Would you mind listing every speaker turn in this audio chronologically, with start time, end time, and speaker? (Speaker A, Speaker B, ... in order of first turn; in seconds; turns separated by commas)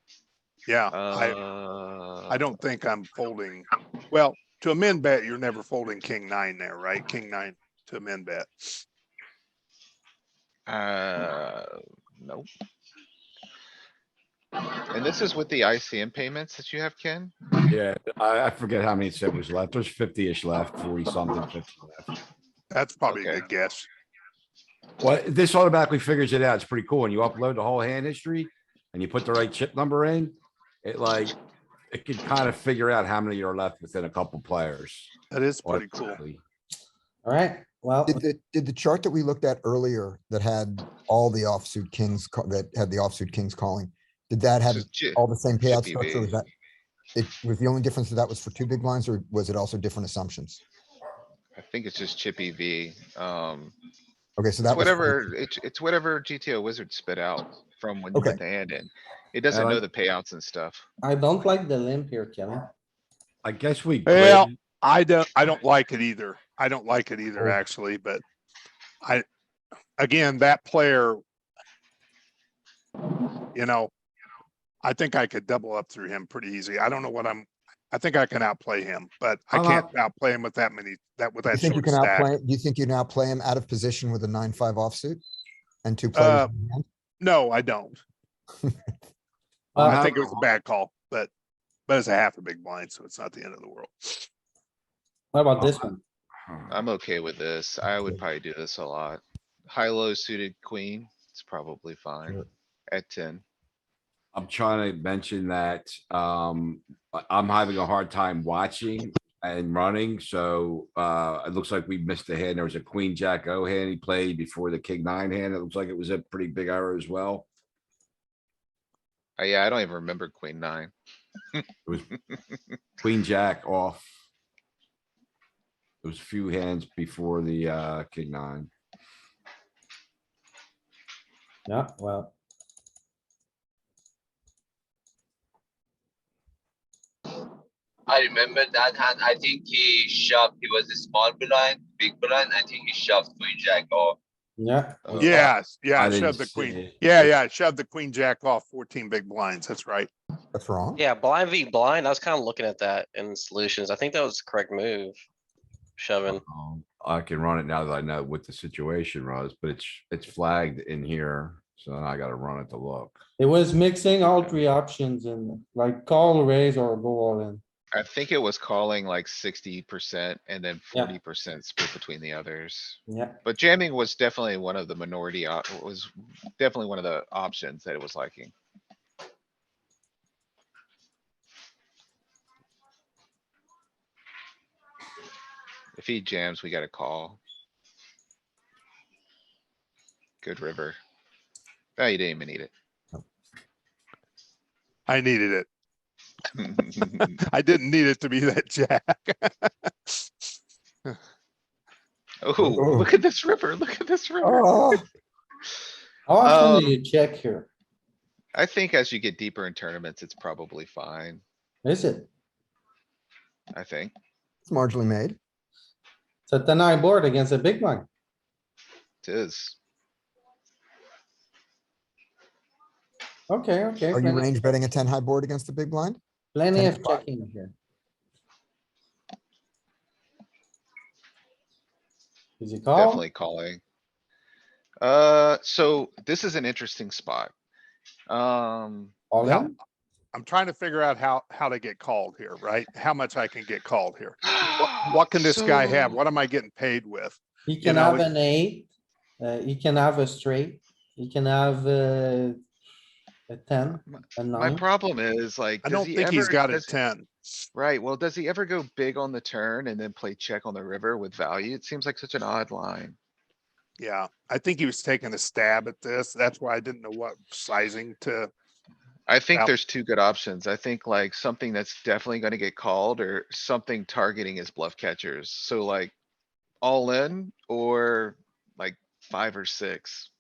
Speaker A: 0.7-1.4, Speaker B: 0.9-2.4, Speaker A: 2.3-8.8, Speaker B: 10.7-12.5, Speaker B: 14.9-17.3, Speaker C: 17.7-22.1, Speaker A: 22.7-23.9, Speaker B: 23.1-23.4, Speaker C: 25.0-31.4, Speaker C: 31.9-35.1, Speaker A: 35.3-36.2, Speaker C: 35.6-36.4, Speaker D: 37.2-38.2, Speaker E: 38.1-46.5, Speaker B: 44.7-46.3, Speaker E: 47.1-50.6, Speaker B: 51.5-53.8, Speaker E: 54.4-55.2, Speaker B: 54.7-60.9, Speaker E: 58.1-58.4, Speaker C: 59.5-59.8, Speaker D: 61.0-62.7, Speaker C: 63.4-64.5, Speaker A: 64.1-68.2, Speaker A: 70.0-71.2, Speaker A: 73.5-73.9, Speaker A: 74.8-82.3, Speaker C: 79.5-79.9, Speaker E: 81.5-85.2, Speaker E: 85.8-86.8, Speaker A: 86.2-86.5, Speaker A: 87.2-88.0, Speaker D: 89.8-90.1, Speaker A: 89.8-91.3, Speaker A: 91.9-94.3, Speaker D: 95.3-96.0, Speaker B: 96.7-103.4, Speaker C: 104.3-117.5, Speaker B: 119.4-120.9, Speaker C: 123.0-124.0, Speaker C: 126.0-128.7, Speaker D: 131.7-132.3, Speaker F: 138.1-144.2, Speaker D: 144.6-145.0, Speaker B: 145.1-145.5, Speaker C: 145.1-145.4, Speaker A: 145.2-150.1, Speaker C: 146.0-147.3, Speaker E: 150.5-151.0, Speaker G: 151.0-155.2, Speaker G: 156.0-156.4, Speaker C: 156.3-163.2, Speaker D: 163.4-167.6, Speaker B: 167.9-178.5, Speaker D: 173.1-173.4, Speaker B: 186.0-187.4, Speaker B: 190.4-191.0, Speaker B: 192.0-192.7, Speaker A: 195.1-195.7, Speaker B: 196.6-197.4, Speaker A: 197.4-200.2, Speaker B: 202.4-205.0, Speaker E: 202.6-203.1, Speaker E: 204.4-205.1, Speaker D: 206.3-207.7, Speaker B: 206.4-207.0, Speaker B: 208.6-211.4, Speaker D: 211.8-212.3, Speaker B: 213.7-214.1, Speaker E: 214.7-215.4, Speaker D: 216.5-218.1, Speaker B: 219.2-219.8, Speaker D: 223.5-224.5, Speaker E: 224.1-226.2, Speaker D: 226.5-227.7, Speaker E: 226.8-227.2, Speaker D: 232.6-233.2, Speaker B: 233.0-233.8, Speaker B: 235.0-237.5, Speaker B: 238.3-239.2, Speaker D: 239.3-239.7, Speaker A: 239.4-239.7, Speaker A: 240.3-248.3, Speaker B: 244.5-246.2, Speaker D: 247.7-252.6, Speaker D: 253.5-254.8, Speaker B: 254.1-256.9, Speaker A: 255.8-257.3, Speaker B: 257.8-263.2, Speaker A: 264.0-268.5, Speaker B: 269.3-276.1, Speaker B: 276.8-280.3